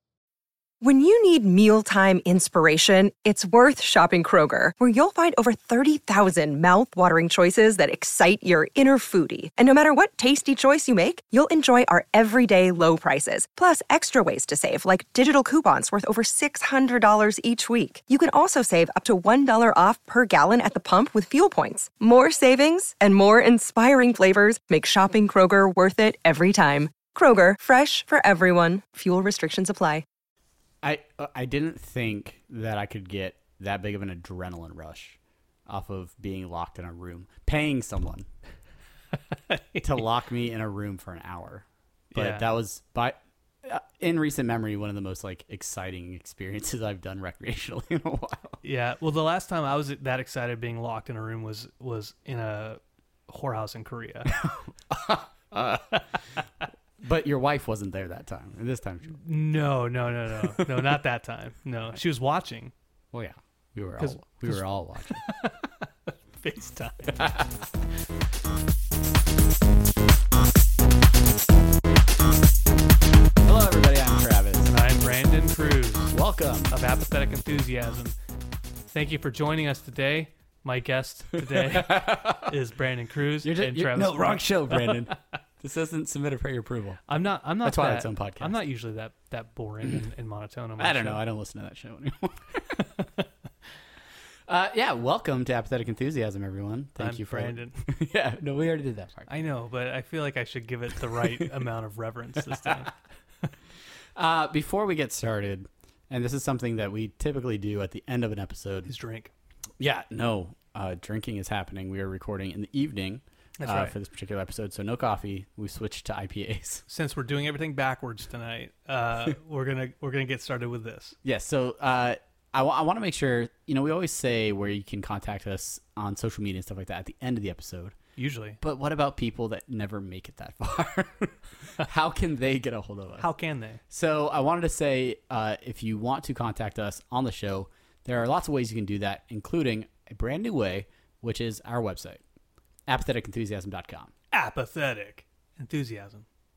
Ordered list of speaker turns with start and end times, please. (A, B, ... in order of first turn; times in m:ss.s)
0:00.8-0:30.0 A
0:30.8-0:38.3 B
0:39.5-0:39.8 C
0:39.8-0:48.6 B
0:42.1-0:42.5 C
0:48.6-0:54.4 C
0:54.3-0:56.0 B
0:57.0-0:59.2 B
0:59.2-1:02.7 C
1:00.5-1:01.0 B
1:03.1-1:05.2 B
1:04.0-1:07.3 C
1:07.0-1:07.5 B
1:13.4-1:14.7 B
1:14.6-1:16.1 C
1:16.1-1:16.8 B
1:16.7-1:18.2 C
1:18.9-1:25.1 C
1:21.4-1:22.5 B
1:23.4-1:27.0 B
1:27.1-1:31.2 C
1:27.6-1:28.6 B
1:30.8-1:32.8 B
1:34.5-1:39.3 B
1:37.0-1:37.9 C
1:39.3-1:43.0 C
1:41.2-1:41.5 B
1:42.4-1:42.8 B
1:44.2-1:48.9 B
1:48.9-1:49.3 C
1:49.8-1:56.8 B
1:53.6-1:53.9 C
1:56.9-2:01.2 C
2:01.2-2:08.0 B
2:08.2-2:08.6 C
2:08.6-2:13.3 B
2:13.2-2:13.8 C
2:13.9-2:22.2 B
2:22.9-2:24.1 B
2:24.3-2:26.2 C